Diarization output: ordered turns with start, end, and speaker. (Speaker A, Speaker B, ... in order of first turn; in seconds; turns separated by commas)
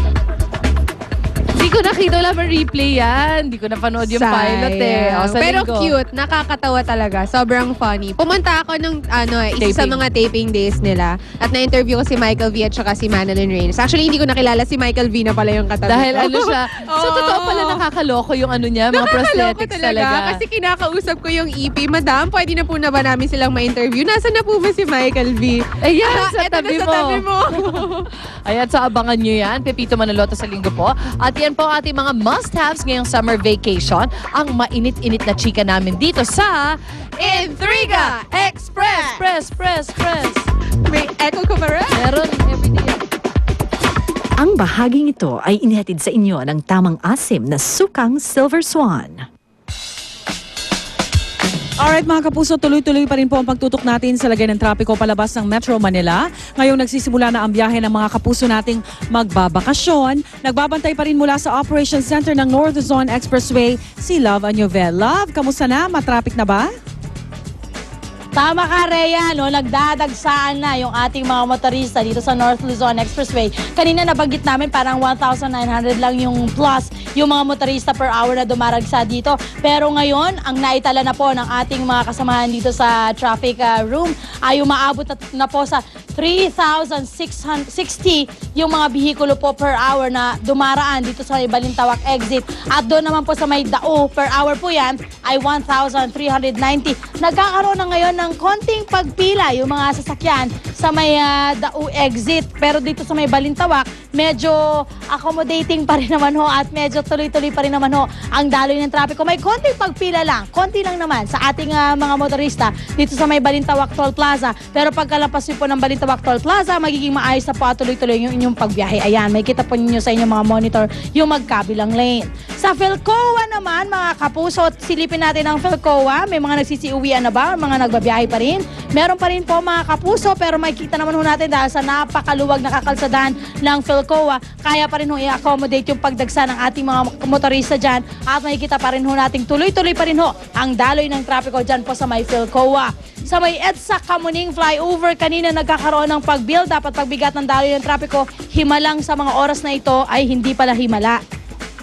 Speaker A: 1.5-5.9, Speaker B: 4.0-17.8, Speaker A: 9.6-10.0, Speaker A: 15.8-20.4, Speaker B: 18.9-28.1, Speaker A: 25.8-27.9, Speaker A: 28.4-40.5, Speaker B: 37.2-39.2, Speaker B: 40.8-42.0, Speaker A: 41.9-43.0, Speaker C: 44.4-49.2, Speaker D: 51.8-66.7, Speaker E: 68.3-151.2